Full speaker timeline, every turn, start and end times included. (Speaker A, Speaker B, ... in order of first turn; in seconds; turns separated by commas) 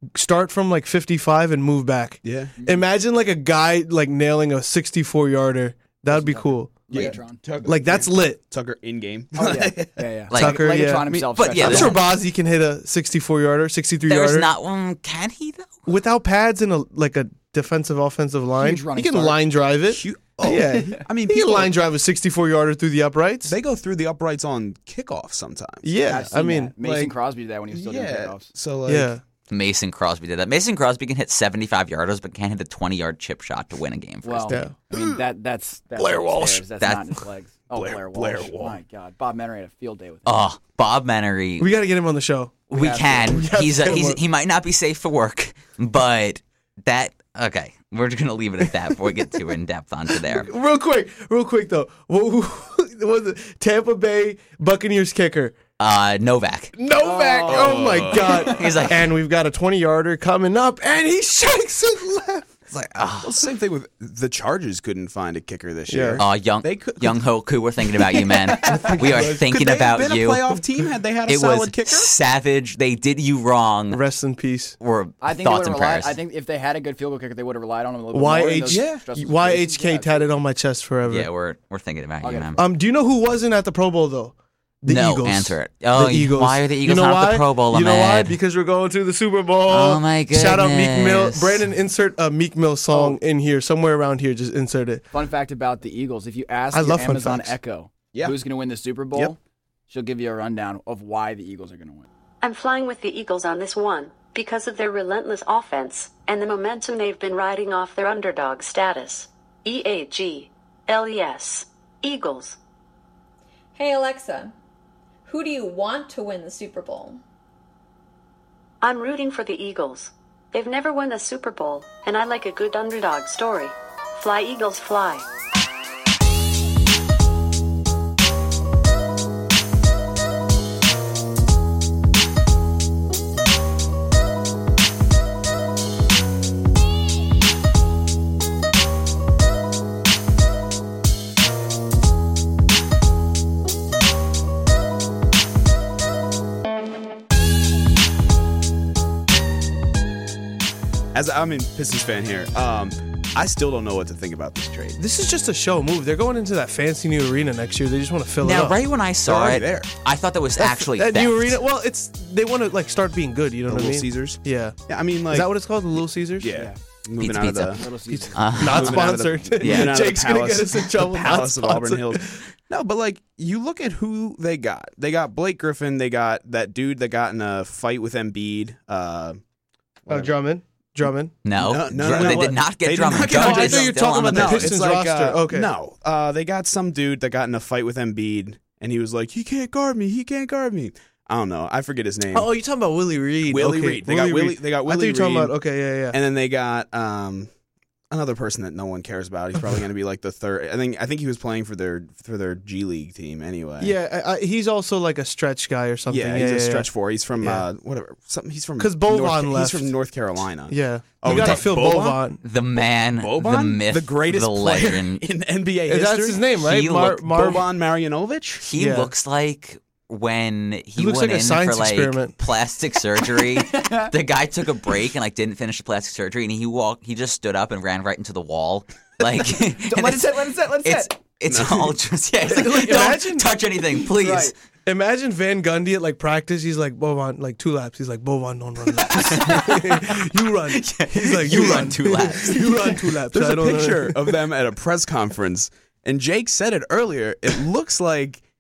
Speaker A: 0.1-8.4, Speaker B: 2.2-2.5, Speaker C: 2.6-2.8, Speaker C: 6.1-7.4, Speaker B: 6.9-10.1, Speaker C: 9.3-12.0, Speaker D: 10.3-12.0, Speaker A: 10.3-14.5, Speaker D: 14.0-15.9, Speaker A: 15.9-23.6, Speaker C: 18.6-19.4, Speaker B: 19.9-21.8, Speaker C: 20.5-21.1, Speaker B: 23.4-26.2, Speaker A: 25.8-26.7, Speaker C: 26.0-28.5, Speaker B: 26.8-27.1, Speaker B: 27.7-29.1, Speaker A: 28.9-29.2, Speaker D: 29.5-34.6, Speaker C: 34.2-40.5, Speaker A: 34.5-34.8, Speaker B: 34.9-35.2, Speaker B: 36.0-36.4, Speaker D: 36.8-37.0, Speaker B: 37.7-38.8, Speaker D: 40.3-41.7, Speaker A: 41.6-44.2, Speaker D: 42.7-50.5, Speaker C: 42.8-43.3, Speaker A: 50.1-55.5, Speaker D: 55.8-56.7, Speaker A: 56.8-62.5, Speaker C: 57.0-58.8, Speaker B: 57.5-58.6, Speaker D: 58.5-59.1, Speaker D: 62.7-63.5, Speaker B: 63.2-67.2, Speaker A: 65.9-66.2, Speaker D: 66.2-70.5, Speaker B: 68.1-72.1, Speaker A: 69.0-69.3, Speaker D: 71.3-74.0, Speaker A: 73.9-74.8, Speaker D: 74.8-76.2, Speaker C: 75.2-80.3, Speaker A: 78.1-81.3, Speaker B: 78.7-79.0, Speaker D: 81.1-82.6, Speaker C: 82.2-82.6, Speaker A: 82.6-95.0, Speaker D: 84.9-88.4, Speaker D: 89.7-91.6, Speaker C: 92.9-93.2, Speaker C: 95.1-102.1, Speaker A: 96.7-97.6, Speaker E: 102.4-112.6, Speaker F: 113.8-114.5, Speaker F: 115.3-117.2, Speaker E: 118.8-125.3, Speaker B: 151.1-155.0, Speaker A: 155.0-158.8, Speaker D: 158.4-161.6, Speaker B: 159.3-159.9, Speaker A: 160.6-164.8, Speaker B: 163.7-165.5, Speaker A: 165.3-166.5, Speaker B: 166.4-179.4, Speaker C: 166.5-166.8, Speaker D: 167.2-170.0, Speaker C: 167.7-168.6, Speaker A: 168.6-172.5, Speaker B: 180.1-180.3, Speaker A: 180.1-185.7, Speaker D: 181.4-184.7, Speaker B: 181.6-192.5, Speaker A: 192.3-196.2, Speaker B: 193.4-195.5, Speaker B: 196.1-197.5, Speaker B: 198.1-203.9, Speaker A: 203.8-206.9, Speaker B: 206.1-212.2, Speaker A: 207.4-207.7, Speaker A: 208.8-209.9, Speaker A: 210.7-212.4, Speaker D: 211.3-211.7, Speaker D: 212.4-215.2, Speaker B: 213.2-216.5, Speaker A: 215.9-217.7, Speaker D: 216.5-217.3, Speaker B: 217.3-218.7, Speaker D: 218.6-234.5, Speaker A: 218.8-219.1, Speaker A: 221.0-222.3, Speaker C: 223.2-224.1, Speaker C: 229.6-231.1, Speaker B: 231.5-232.0, Speaker A: 232.5-233.6, Speaker C: 232.6-233.1, Speaker C: 234.0-234.6, Speaker A: 234.8-244.4, Speaker D: 239.1-242.9, Speaker B: 242.4-242.7, Speaker B: 243.3-248.4